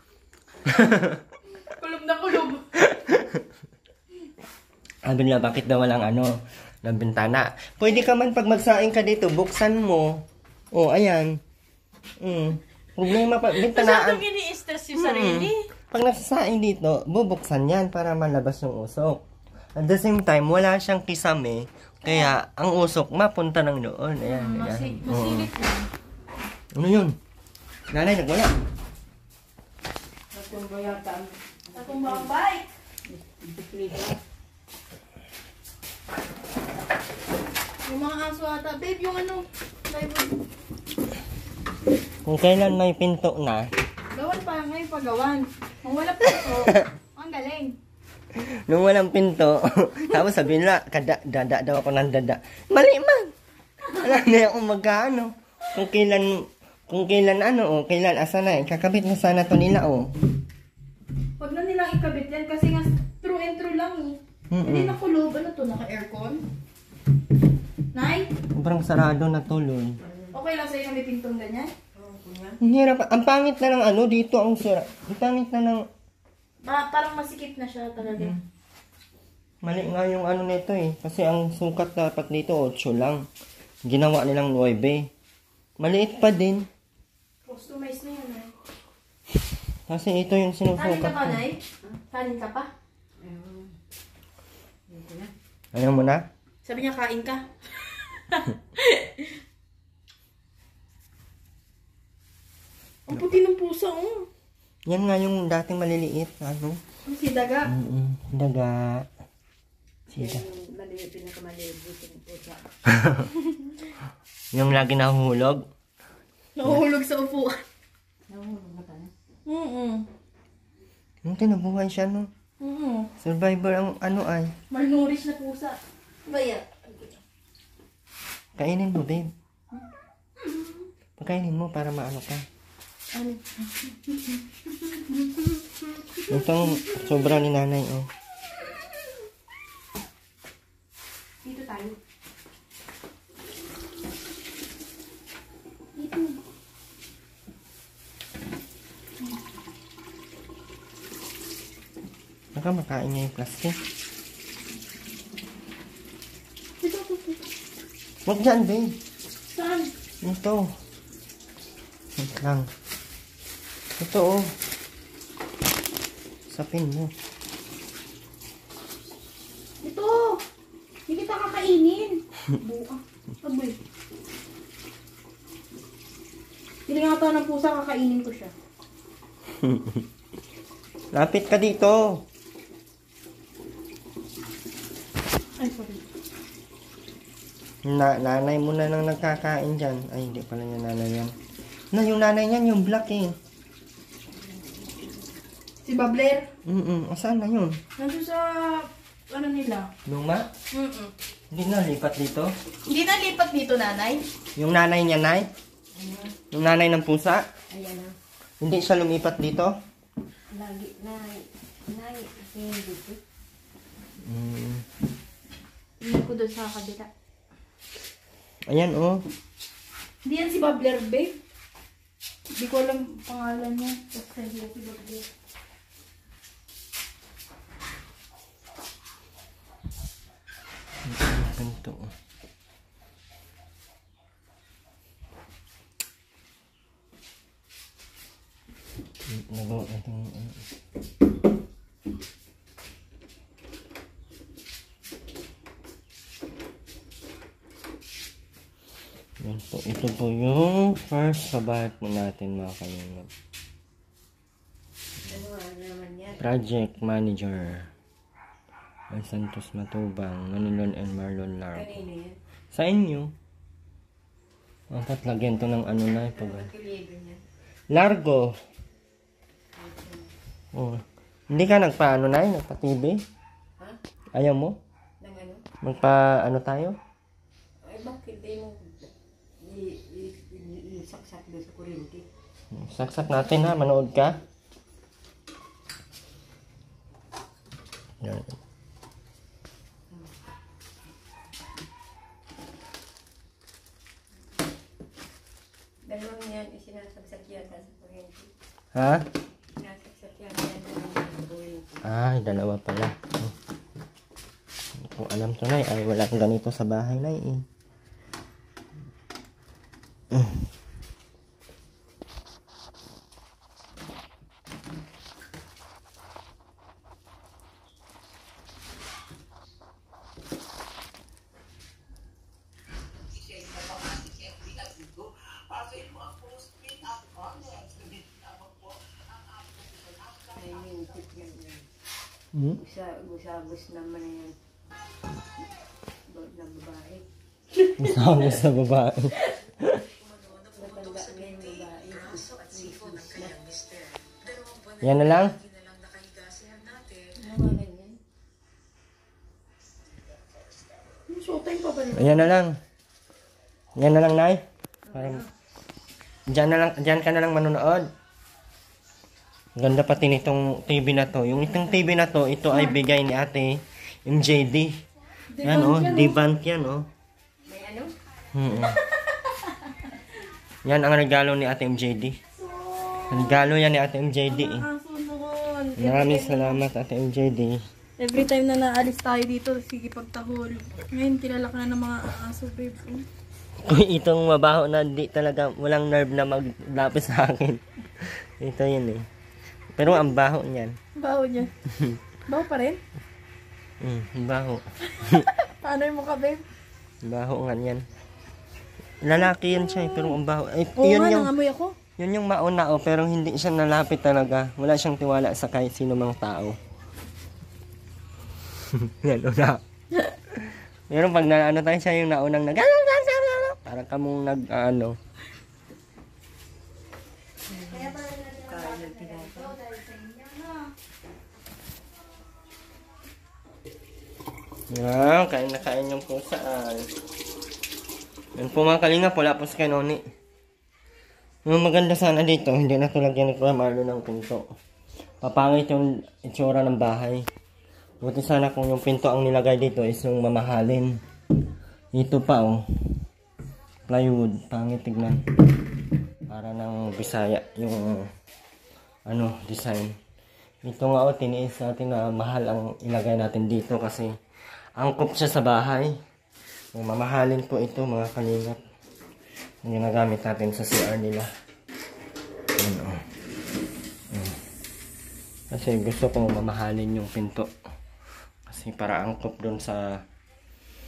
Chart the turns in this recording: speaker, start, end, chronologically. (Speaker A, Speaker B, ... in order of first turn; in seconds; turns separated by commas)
Speaker A: 0.6-1.2, Speaker B: 1.7-2.6, Speaker A: 2.8-3.4, Speaker A: 5.0-11.4, Speaker A: 12.2-14.2, Speaker B: 13.7-15.7, Speaker A: 14.9-19.2, Speaker A: 19.8-25.5, Speaker B: 22.0-22.3, Speaker B: 24.2-25.9, Speaker A: 26.8-27.1, Speaker A: 27.9-28.5, Speaker C: 30.3-32.3, Speaker B: 31.7-32.7, Speaker C: 33.0-34.2, Speaker B: 37.9-40.4, Speaker A: 42.2-43.7, Speaker B: 44.1-47.8, Speaker A: 46.4-46.8, Speaker A: 48.3-60.1, Speaker B: 61.4-66.4, Speaker A: 64.5-64.9, Speaker B: 67.9-68.3, Speaker A: 68.5-70.0, Speaker C: 70.0-70.4, Speaker B: 70.3-71.7, Speaker C: 71.9-72.6, Speaker A: 72.6-75.9, Speaker B: 76.6-78.3, Speaker A: 78.1-78.4, Speaker A: 79.6-83.2, Speaker A: 83.8-85.1, Speaker A: 85.8-86.7, Speaker B: 87.4-88.5, Speaker A: 89.9-91.4, Speaker B: 90.8-92.7, Speaker C: 93.2-93.8, Speaker C: 94.9-95.3, Speaker A: 95.7-96.2, Speaker B: 96.6-99.3, Speaker B: 103.1-104.3, Speaker A: 104.9-106.8, Speaker B: 107.0-107.7, Speaker A: 107.7-109.1, Speaker C: 110.1-112.7, Speaker A: 110.1-110.4, Speaker A: 112.9-113.3, Speaker A: 114.5-115.7, Speaker B: 116.5-117.6, Speaker C: 118.3-119.1, Speaker B: 119.4-120.0, Speaker A: 121.2-122.3, Speaker B: 122.6-123.1, Speaker A: 123.2-124.5, Speaker B: 124.7-127.1, Speaker A: 128.6-129.3, Speaker B: 130.4-130.8, Speaker A: 131.2-132.4, Speaker B: 133.1-137.4, Speaker A: 136.3-138.1, Speaker B: 141.4-142.0, Speaker B: 145.9-146.4, Speaker A: 152.5-153.8, Speaker B: 156.8-157.4, Speaker A: 158.2-159.0, Speaker B: 159.5-159.9, Speaker A: 160.2-160.7, Speaker A: 162.2-162.7, Speaker A: 164.0-164.5, Speaker A: 166.5-167.1, Speaker B: 169.8-170.4, Speaker B: 171.1-173.8, Speaker B: 176.9-178.5, Speaker A: 179.5-180.1, Speaker A: 181.1-182.2, Speaker B: 185.6-186.0, Speaker A: 187.8-191.3, Speaker A: 191.9-193.4, Speaker C: 194.3-195.3, Speaker B: 195.8-196.5, Speaker A: 196.6-197.8, Speaker B: 198.0-199.9, Speaker A: 200.1-200.5, Speaker B: 200.7-201.1, Speaker A: 201.5-202.5, Speaker B: 202.9-204.2, Speaker A: 204.6-205.5, Speaker C: 205.9-206.3, Speaker A: 206.5-207.5, Speaker C: 207.7-208.2, Speaker A: 208.6-209.8, Speaker C: 210.5-213.2, Speaker A: 214.2-214.8, Speaker B: 216.0-217.1, Speaker A: 218.7-219.2, Speaker B: 220.2-221.4, Speaker B: 222.5-225.2, Speaker A: 231.0-232.1, Speaker A: 239.3-240.6, Speaker A: 249.4-253.3, Speaker C: 255.2-256.4, Speaker A: 256.4-257.9, Speaker A: 259.1-262.0, Speaker C: 261.7-262.4, Speaker A: 262.7-263.3, Speaker A: 264.9-266.7, Speaker C: 266.3-267.4, Speaker A: 267.9-268.6, Speaker C: 269.8-270.3, Speaker A: 270.7-273.2, Speaker A: 274.4-274.8, Speaker C: 275.2-275.6, Speaker A: 275.8-277.0, Speaker C: 277.8-282.3, Speaker A: 282.7-284.4, Speaker A: 288.2-288.5, Speaker C: 296.0-298.5, Speaker A: 298.9-299.2, Speaker C: 299.8-302.1, Speaker A: 302.0-303.5, Speaker A: 305.0-307.6, Speaker A: 310.3-310.6, Speaker C: 330.4-331.9, Speaker A: 332.5-332.8, Speaker C: 332.8-334.6, Speaker C: 336.3-337.2, Speaker A: 337.9-340.0, Speaker B: 340.7-341.9, Speaker C: 340.7-343.9, Speaker A: 345.0-345.6, Speaker C: 347.1-348.2, Speaker B: 351.3-352.4, Speaker A: 352.1-352.8, Speaker A: 353.9-355.4, Speaker C: 355.1-355.5, Speaker A: 356.5-358.1, Speaker A: 359.8-365.0, Speaker B: 365.5-366.4, Speaker A: 365.6-367.1, Speaker C: 367.6-368.1, Speaker A: 368.5-369.0, Speaker B: 369.5-370.1, Speaker A: 370.9-372.4, Speaker B: 372.6-373.7, Speaker A: 373.3-374.9, Speaker B: 374.5-376.8, Speaker A: 376.0-377.8, Speaker B: 378.2-383.2, Speaker A: 383.8-389.3, Speaker A: 389.9-391.0, Speaker B: 391.1-391.8, Speaker A: 391.9-392.2, Speaker B: 392.4-393.0, Speaker A: 394.0-395.5, Speaker B: 395.1-396.6, Speaker A: 397.2-398.0, Speaker A: 399.2-401.5, Speaker B: 399.4-400.4, Speaker B: 401.0-402.0, Speaker A: 402.2-406.8, Speaker A: 408.9-415.2, Speaker C: 417.7-419.8, Speaker B: 417.9-420.9, Speaker A: 424.9-427.1, Speaker A: 428.6-430.2, Speaker A: 431.6-434.6, Speaker A: 435.4-437.5, Speaker A: 438.2-441.2, Speaker A: 442.1-442.8, Speaker A: 444.1-445.4, Speaker A: 446.5-448.3, Speaker A: 449.3-450.2, Speaker A: 450.8-454.3, Speaker A: 455.0-456.2, Speaker A: 456.9-458.8, Speaker A: 459.8-461.5, Speaker A: 462.8-463.2, Speaker A: 464.3-464.6, Speaker A: 465.7-467.7, Speaker A: 468.7-470.2